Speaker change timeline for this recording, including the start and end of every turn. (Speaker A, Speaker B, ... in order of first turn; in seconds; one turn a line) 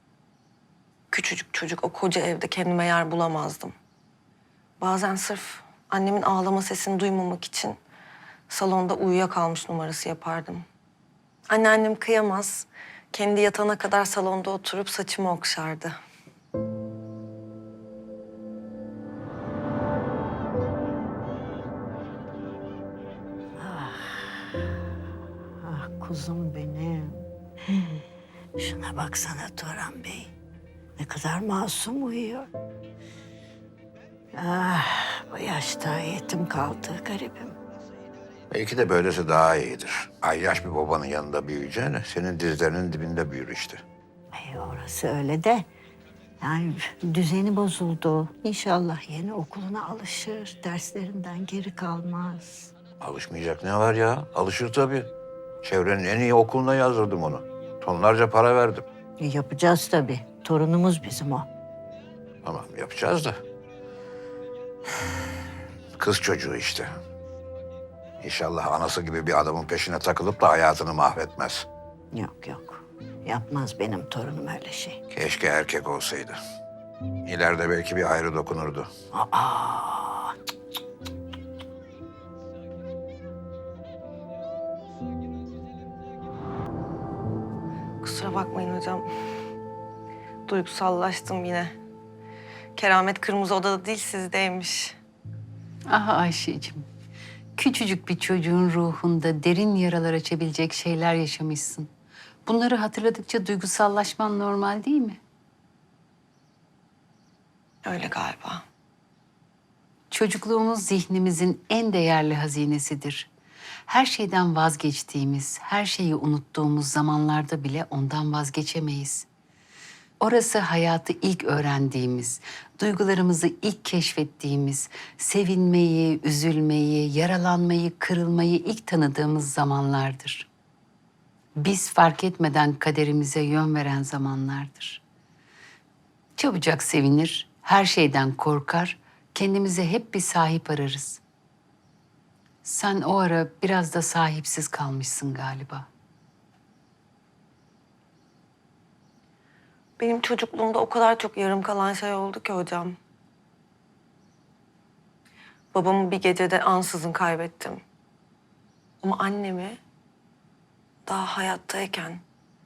Speaker A: 1.1-3.7
Speaker A: 4.8-7.8
Speaker A: 8.5-10.6
Speaker A: 11.5-15.9
Speaker B: 23.6-24.4
Speaker B: 25.6-28.0
Speaker B: 28.6-30.3
Speaker B: 31.0-32.5
Speaker B: 34.3-37.5
Speaker C: 38.5-43.8
Speaker B: 44.3-45.7
Speaker B: 46.4-52.7
Speaker C: 53.0-55.1
Speaker C: 55.6-58.8
Speaker B: 59.2-61.5
Speaker C: 62.4-63.4
Speaker C: 65.9-67.0
Speaker C: 68.2-71.7
Speaker B: 72.1-75.0
Speaker C: 75.1-76.4
Speaker C: 77.2-78.9
Speaker B: 79.1-80.3
Speaker A: 88.0-89.0
Speaker A: 90.5-91.7
Speaker A: 92.8-95.0
Speaker D: 95.9-96.9
Speaker D: 97.5-101.9
Speaker D: 102.5-105.2
Speaker A: 107.8-108.6
Speaker D: 110.1-113.3
Speaker D: 113.9-119.2
Speaker D: 120.2-130.5
Speaker D: 131.6-135.0
Speaker D: 136.4-141.2
Speaker D: 142.6-145.9
Speaker A: 150.0-152.9
Speaker A: 155.7-157.8
Speaker A: 159.0-159.8
Speaker A: 161.1-162.2